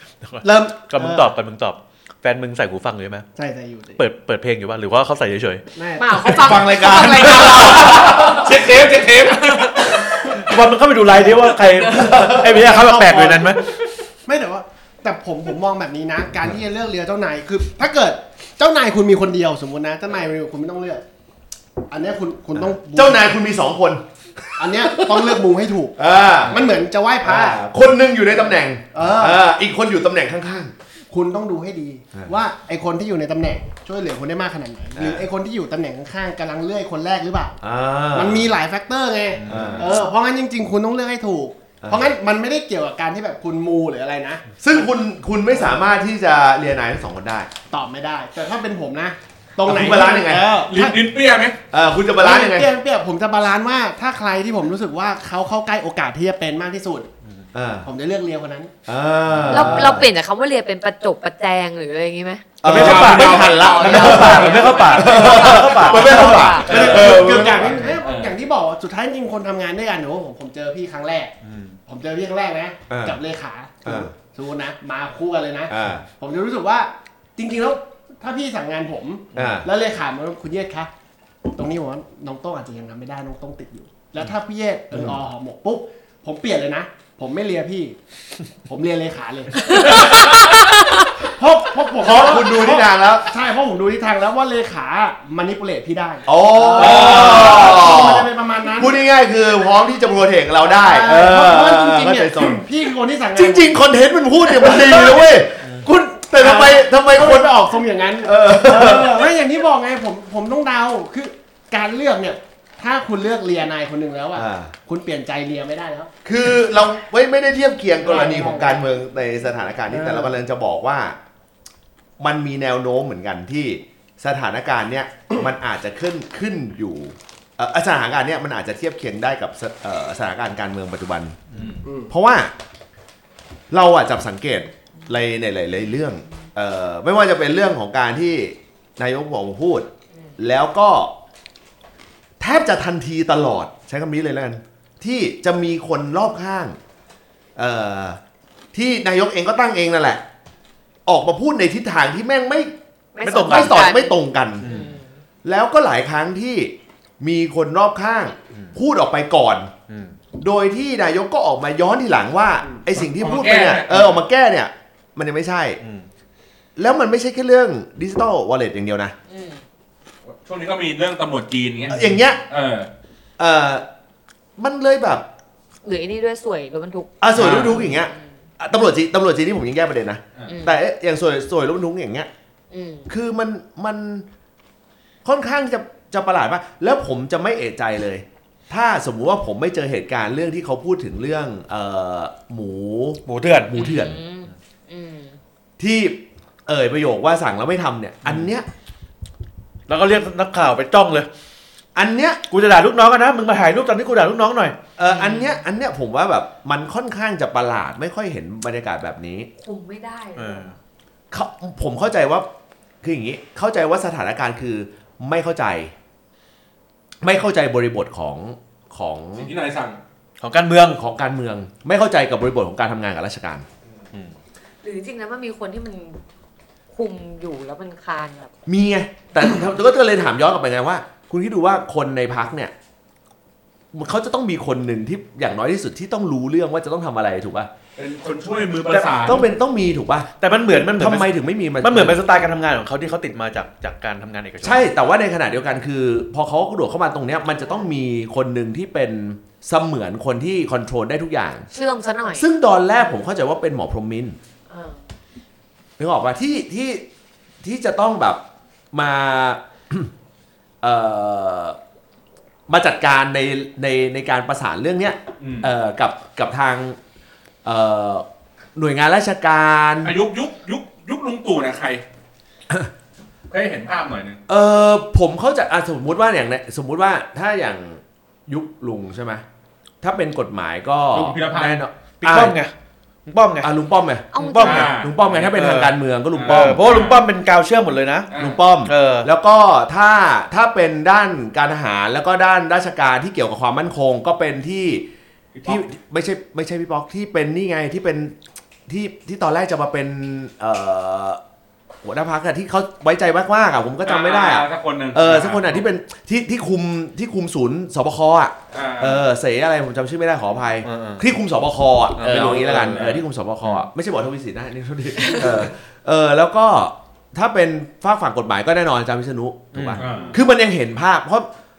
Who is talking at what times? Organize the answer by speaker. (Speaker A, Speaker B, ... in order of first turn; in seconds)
Speaker A: 0.2-3.3, 4.0-5.6, 9.9-13.8, 39.4-39.9, 59.3-59.7, 62.6-66.9, 71.4-71.8, 131.5-131.8, 153.3-153.7, 154.6-154.9, 159.9-160.2, 165.8-166.1, 177.4-177.7, 193.2-193.9, 199.9-201.3, 202.5-204.8, 210.3-210.7, 220.4-221.0, 238.9-239.4, 240.4-244.9, 282.2-282.7, 283.2-283.7, 284.4-288.3, 288.9-289.3, 310.8-311.3, 312.2-312.8, 319.7-320.2
Speaker B: 0.4-1.3, 3.4-4.0, 5.8-6.6, 11.2-13.6, 14.2-21.0, 21.9-23.3, 24.6-27.6, 28.9-29.4, 31.1-37.6, 38.1-44.5, 45.5-45.8, 47.7-51.0, 52.2-57.1, 57.8-58.7, 59.5-59.9, 65.9-71.3, 71.8-80.9, 81.5-88.0, 88.6-90.5, 91.2-99.0, 100.6-103.8, 104.4-116.1, 118.0-118.8, 119.9-120.3, 131.8-132.1
Speaker C: 6.0-8.3, 11.6-11.9, 59.5-62.5, 63.3-66.7, 89.7-91.1, 153.2-155.1, 169.3-169.6, 175.8-178.3, 180.5-180.8, 182.7-183.1, 193.7-195.4, 205.1-205.6, 209.6-210.7, 224.8-226.2, 226.9-228.5, 251.7-252.5, 254.7-255.0, 284.3-284.9, 315.2-315.5
Speaker D: 6.3-10.1, 50.6-51.5, 62.6-64.1, 66.7-68.3, 96.7-97.8, 131.6-131.8, 162.9-164.2, 170.4-172.9, 177.3-177.8, 219.4-220.0, 238.0-239.4, 265.4-265.7, 270.0-272.0, 273.5-274.4, 281.1-281.8, 284.6-285.3, 286.3-287.2, 288.3-288.6, 295.6-295.8, 304.0-305.8, 308.7-309.2, 312.2-313.2, 320.0-320.4
Speaker E: 6.4-8.5, 11.9-12.4, 22.5-25.4, 26.0-26.6, 27.2-30.7, 34.9-35.3, 37.6-38.5, 39.5-40.0, 41.8-42.1, 44.6-47.5, 49.6-50.5, 51.7-52.7, 57.5-57.9, 58.9-60.1, 62.6-67.9, 72.9-73.2, 73.8-74.1, 75.7-76.0, 79.3-79.7, 84.9-85.2, 92.0-93.3, 96.2-102.6, 103.3-109.3, 114.3-114.7, 116.2-121.2, 122.2-131.4, 132.1-132.5, 133.7-141.1, 142.4-146.8, 147.6-148.2, 148.7-150.2, 151.1-154.7, 155.4-159.7, 160.4-165.8, 166.8-169.1, 171.9-172.4, 173.4-173.8, 174.6-175.3, 177.2-182.3, 183.1-184.3, 185.2-193.2, 193.7-194.2, 195.8-198.7, 201.9-202.4, 205.0-209.5, 211.3-212.5, 213.0-215.9, 217.2-219.5, 221.0-223.7, 228.7-232.7, 233.9-237.7, 239.2-240.3, 241.0-242.2, 244.6-251.7, 252.3-254.4, 256.0-257.0, 257.6-260.1, 260.8-261.8, 262.7-267.0, 267.6-270.1, 274.5-279.4, 280.0-282.6, 283.6-286.9, 288.3-295.1, 295.6-298.4, 298.9-301.4, 302.0-321.5